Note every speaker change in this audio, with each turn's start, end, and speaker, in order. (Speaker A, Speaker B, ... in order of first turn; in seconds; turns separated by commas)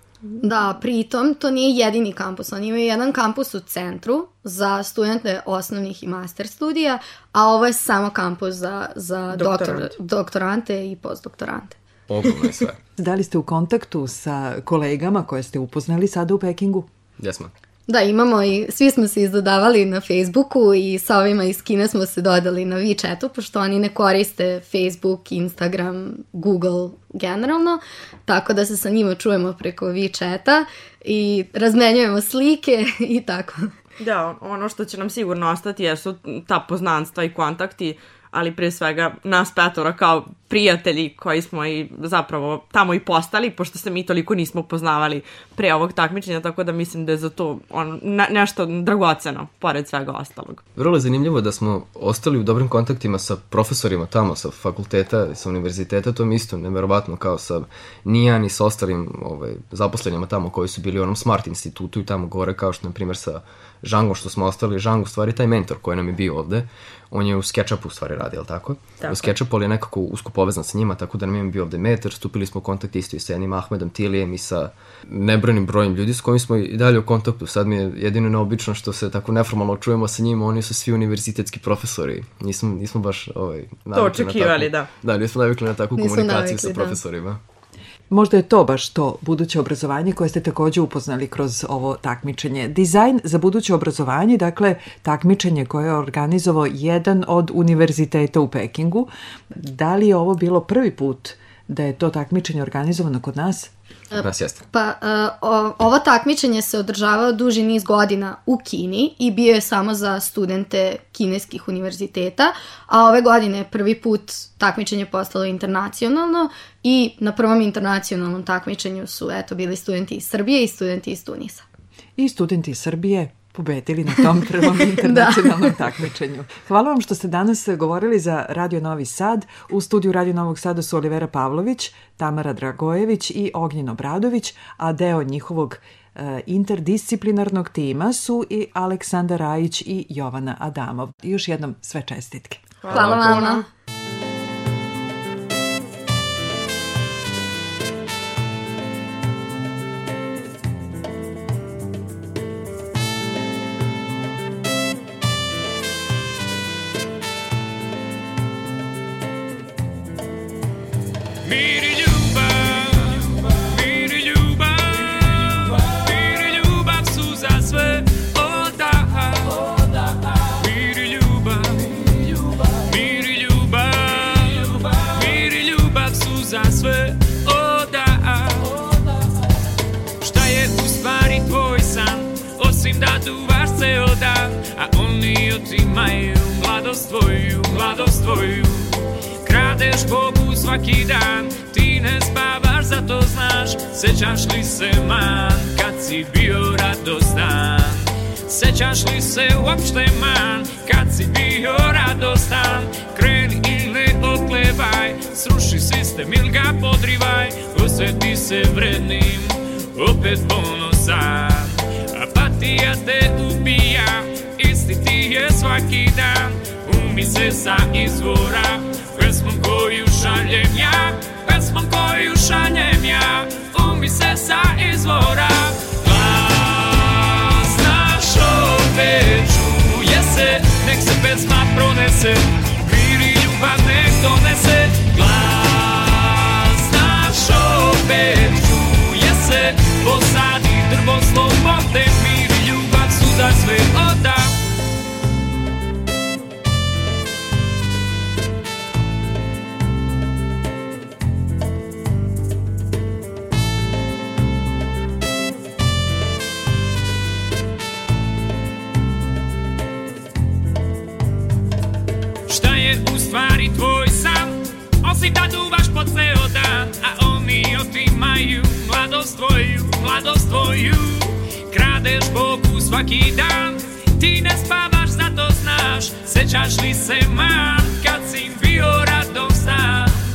Speaker A: 0.4-11.8, Speaker B: 9.3-9.9, Speaker C: 12.1-12.8, Speaker D: 13.0-16.9, Speaker C: 17.2-17.5, Speaker A: 17.9-33.7, Speaker B: 34.0-50.6, Speaker C: 50.7-87.4, Speaker B: 69.0-69.3, Speaker B: 83.9-84.9, Speaker A: 86.0-87.0, Speaker D: 88.1-103.7, Speaker A: 104.1-121.6, Speaker C: 104.2-104.6, Speaker D: 122.2-142.8, Speaker A: 125.0-125.7, Speaker B: 142.8-143.6, Speaker A: 142.9-143.6, Speaker E: 161.4-178.8, Speaker E: 180.2-244.5, Speaker E: 262.5-280.2